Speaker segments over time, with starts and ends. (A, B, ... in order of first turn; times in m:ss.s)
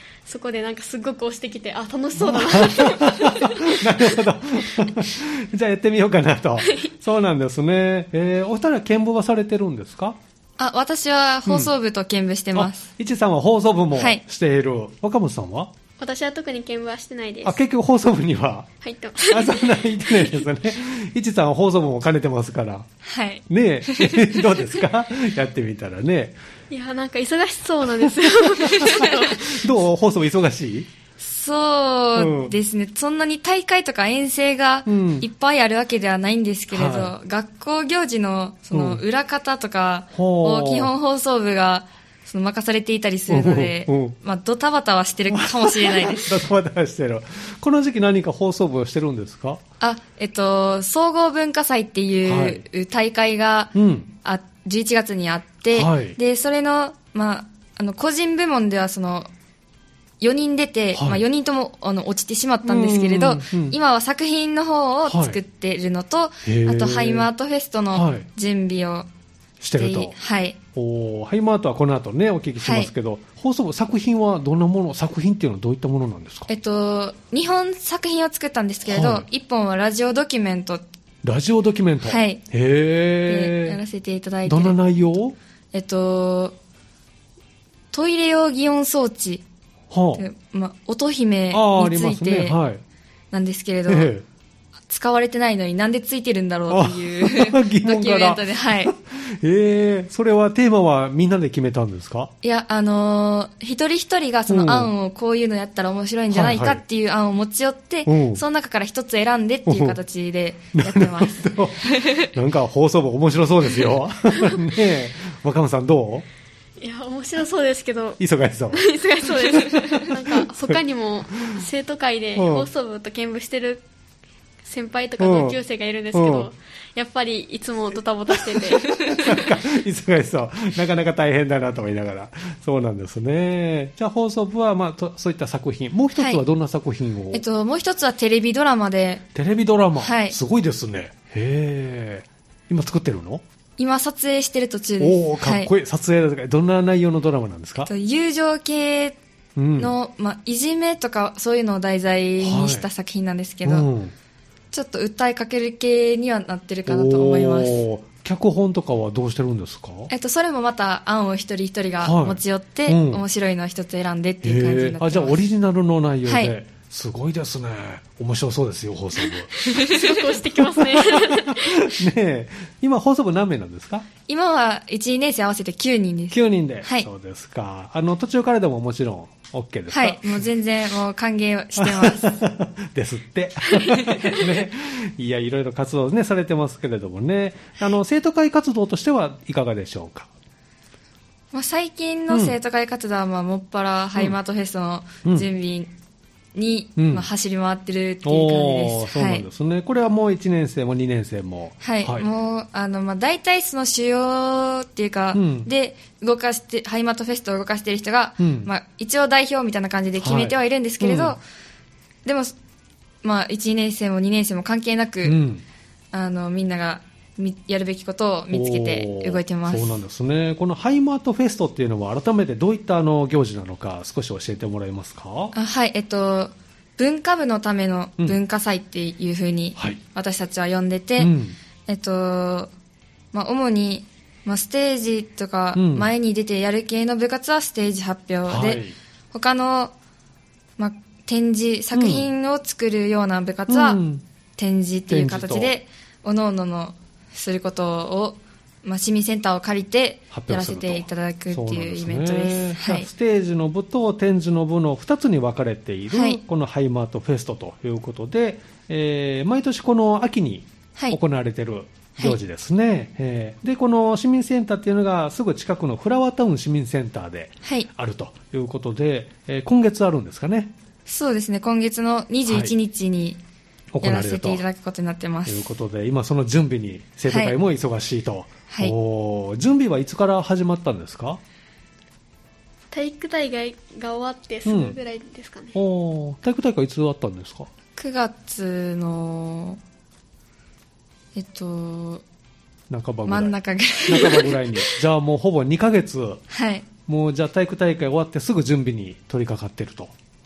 0:00.2-0:04.2 A
0:02.2-0:10.2 B
0:06.6-0:06.9 A
0:10.6-0:12.9 C
0:11.4-0:11.7 B
0:12.5-0:15.7 B
0:14.0-0:14.2 C
0:16.0-0:17.6 A
0:17.4-0:18.7 B
0:18.8-0:20.4 A
0:19.2-0:22.9 B
0:23.0-0:24.8 C
0:23.5-0:26.4 B
0:26.7-0:29.6 A
0:28.0-0:30.9 B
0:31.2-0:46.4 C
0:32.2-0:32.5 B
0:34.9-0:35.3 B
0:36.7-0:37.1 B
0:38.7-0:39.0 B
0:40.1-0:40.9 B
0:43.3-0:44.1 B
0:45.3-0:49.6 B
0:49.8-0:59.3 C
0:52.2-0:52.6 B
0:53.7-0:54.1 B
0:55.7-0:56.2 B
1:00.2-1:09.1 C
1:00.9-1:01.2 B
1:02.6-1:03.8 B
1:05.1-1:05.4 B
1:06.4-1:07.3 B
1:07.9-1:08.2 B
1:09.6-1:10.1 B
1:09.8-1:10.6 C
1:10.7-1:16.5 B
1:12.6-1:12.9 C
1:16.5-1:20.8 C
1:18.9-1:19.2 B
1:21.2-1:23.8 B
1:22.0-1:22.4 C
1:23.3-1:24.8 C
1:24.5-1:25.4 B
1:25.7-1:26.5 C
1:27.9-1:29.4 C
1:29.9-1:30.2 B
1:30.2-1:32.6 C
1:31.5-1:32.8 B
1:33.3-1:34.1 C
1:33.9-1:34.2 B
1:34.9-1:38.9 C
1:36.7-1:42.3 B
1:42.4-1:52.3 C
1:44.5-1:44.9 B
1:46.3-1:46.8 B
1:48.0-1:48.4 B
1:49.7-1:50.0 B
1:50.7-1:56.2 B
1:56.8-1:58.2 A
1:58.2-2:00.8 B
1:58.7-2:03.8 A
2:02.4-2:02.7 B
2:04.6-2:09.3 A
2:05.2-2:05.6 B
2:06.1-2:06.5 B
2:08.5-2:17.4 B
2:08.9-2:09.3 C
2:17.3-2:19.2 C
2:19.3-2:23.4 B
2:20.0-2:20.4 C
2:23.8-2:25.7 C
2:25.0-2:27.9 B
2:27.8-2:29.2 C
2:29.6-2:29.9 B
2:29.8-2:33.9 C
2:32.4-2:32.8 B
2:33.6-2:34.1 B
2:34.7-2:37.8 C
2:36.9-2:40.1 B
2:40.1-2:45.4 C
2:42.0-2:43.2 B
2:44.4-2:49.7 B
2:46.3-2:46.5 C
2:49.6-2:51.9 A
2:49.8-2:50.2 C
2:50.5-2:54.1 B
2:54.3-2:57.1 C
2:56.3-3:00.4 B
2:59.9-3:02.4 C
3:01.8-3:10.3 B
3:03.8-3:04.4 C
3:11.5-3:15.9 C
3:12.3-3:12.6 B
3:16.5-3:19.4 C
3:17.0-3:17.2 B
3:18.2-3:22.3 B
3:21.8-3:31.4 C
3:25.3-3:25.7 B
3:28.4-3:28.7 B
3:30.2-3:31.4 B
3:32.2-3:32.5 C
3:33.2-3:35.4 C
3:35.2-3:35.6 B
3:36.1-3:40.0 C
3:38.5-3:45.5 B
3:45.5-3:51.3 C
3:51.2-3:51.6 B
3:51.9-3:52.7 C
3:53.3-3:59.9 C
3:55.7-3:56.1 B
3:58.5-3:58.9 B
4:00.8-4:04.0 C
4:01.9-4:02.3 B
4:03.7-4:04.2 B
4:04.6-4:13.1 C
4:05.1-4:05.7 B
4:10.3-4:30.7 B
4:16.1-4:16.4 C
4:31.1-4:33.4 C
4:32.5-4:32.7 B
4:33.9-4:34.6 B
4:34.0-4:35.7 C
4:35.4-4:41.4 B
4:37.3-4:37.5 C
4:42.9-4:45.7 A
4:44.6-4:45.0 B
4:45.7-4:47.7 B
4:48.0-4:49.8 C
4:51.4-4:52.2 C
4:52.9-4:56.4 B
4:53.2-4:54.8 C
4:56.5-4:56.8 C
4:57.1-5:00.1 B